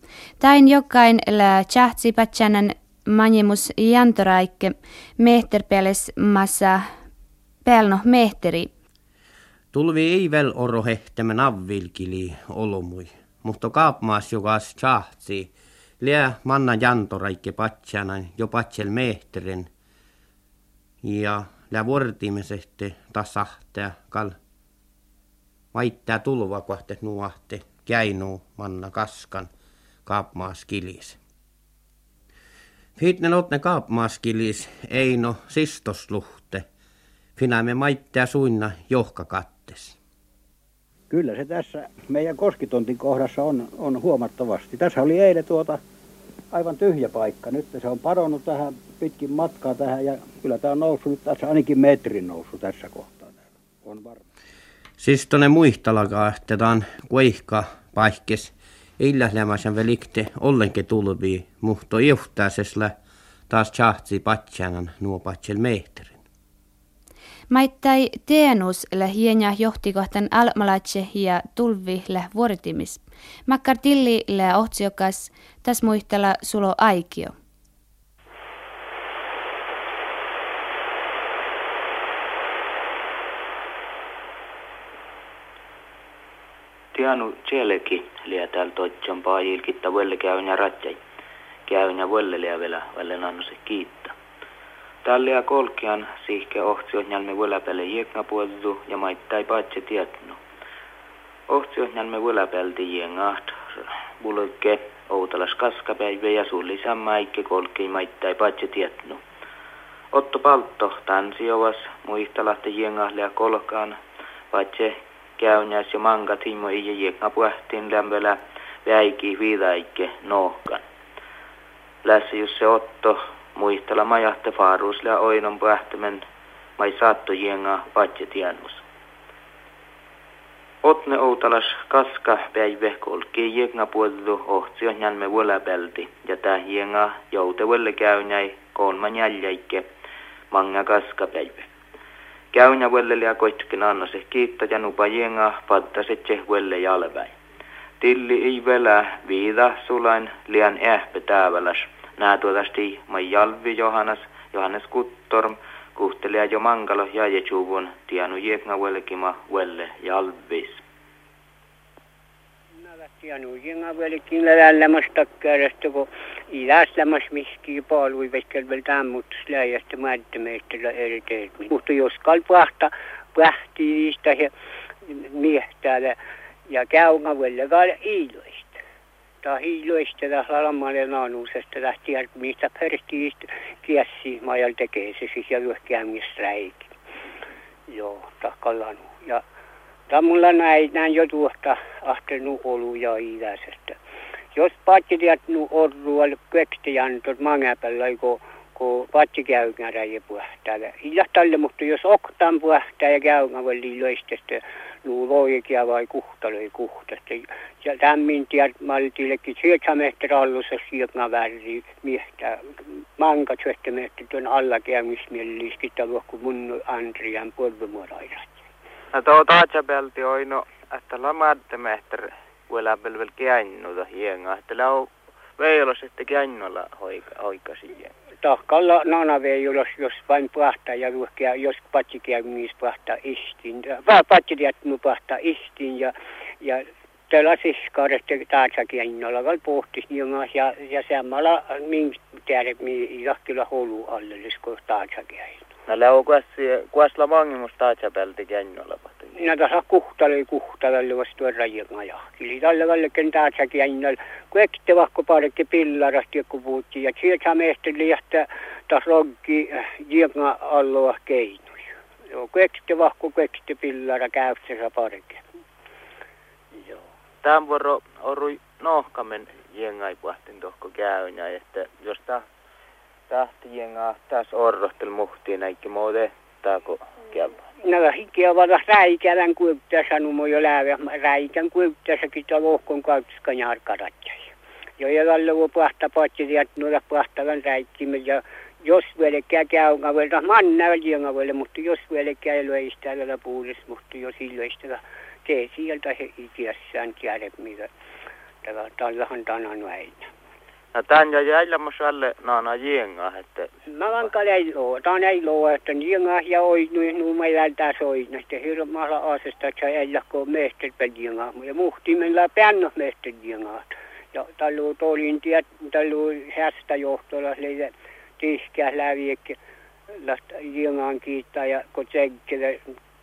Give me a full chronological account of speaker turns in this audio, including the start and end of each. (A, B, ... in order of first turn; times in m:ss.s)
0:00.4-0:06.8 A
0:07.6-0:08.7 A
0:09.7-0:19.7 B
0:21.0-0:24.4 B
0:25.7-0:29.5 B
0:30.1-0:31.2 B
0:33.0-0:36.6 B
0:37.4-0:40.0 B
0:41.1-0:45.8 C
0:46.5-0:54.2 C
0:55.0-1:03.0 B
1:03.5-1:06.2 B
1:07.5-1:17.3 A
1:26.9-1:31.0 D
1:31.7-1:34.1 D
1:35.0-1:40.4 D
1:41.5-1:43.5 D
1:44.2-1:49.2 D
1:50.1-1:54.0 D
1:54.5-2:00.8 D
2:02.0-2:06.2 D
2:06.8-2:08.8 D
2:10.8-2:19.8 D
2:20.5-2:21.7 D
2:22.5-2:27.3 D
2:28.0-2:40.8 D
2:42.8-2:54.5 E
2:55.1-2:56.2 E
2:56.7-2:58.8 E
2:59.4-3:06.9 E
3:07.9-3:09.4 E
3:10.1-3:14.0 E
3:14.6-3:38.7 E
3:39.1-3:48.1 D
3:48.4-4:05.6 E
4:05.9-4:09.3 D
4:09.4-4:25.4 E
4:27.4-4:32.4 D
4:33.3-4:37.6 D
4:37.8-4:57.9 E
4:58.6-5:00.3 E
5:01.0-5:03.7 D
5:03.9-5:19.6 E
5:20.1-5:22.8 E